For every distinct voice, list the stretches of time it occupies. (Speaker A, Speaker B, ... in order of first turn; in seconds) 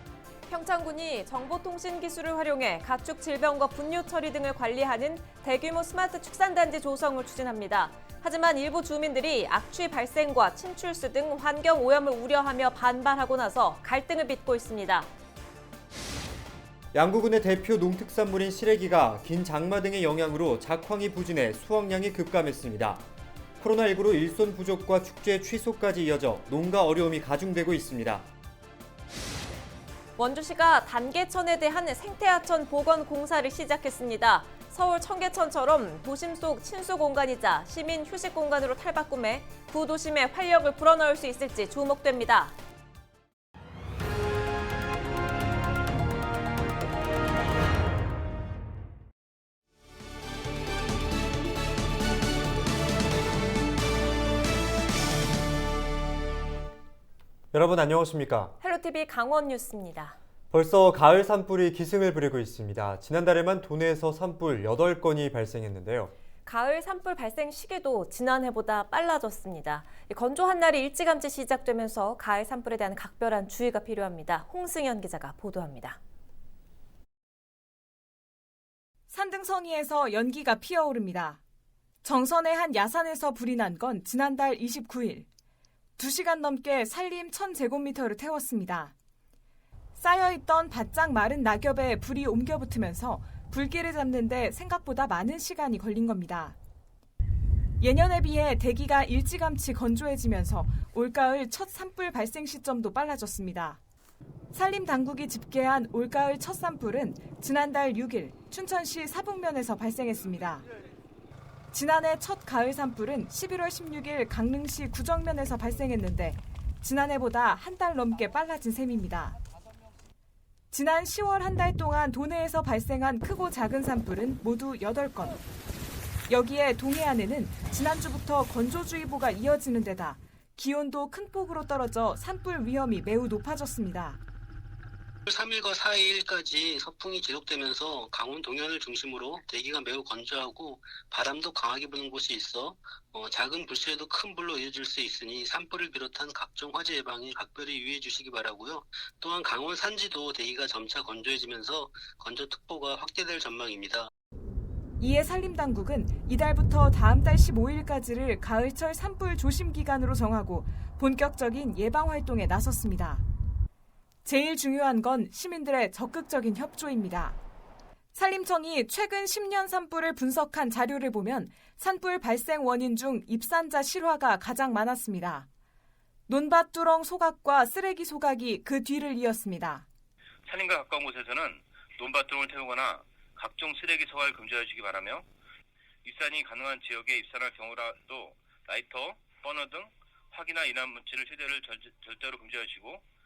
Speaker A: 0.5-15.1, 30.2-42.6, 58.6-60.2, 66.5-76.0
Speaker B: 16.9-23.1, 23.6-28.3, 57.5-58.5, 60.5-66.1
Speaker C: 79.1-81.4, 82.0-85.3, 86.0-88.9, 90.0-96.5, 97.8-103.8, 104.5-110.6, 111.7-119.3, 120.7-125.4, 126.3-134.2, 155.0-163.2, 164.2-167.4, 168.2-175.5, 176.3-179.8
Speaker D: 135.3-154.1
Speaker E: 180.5-185.2, 186.1-193.0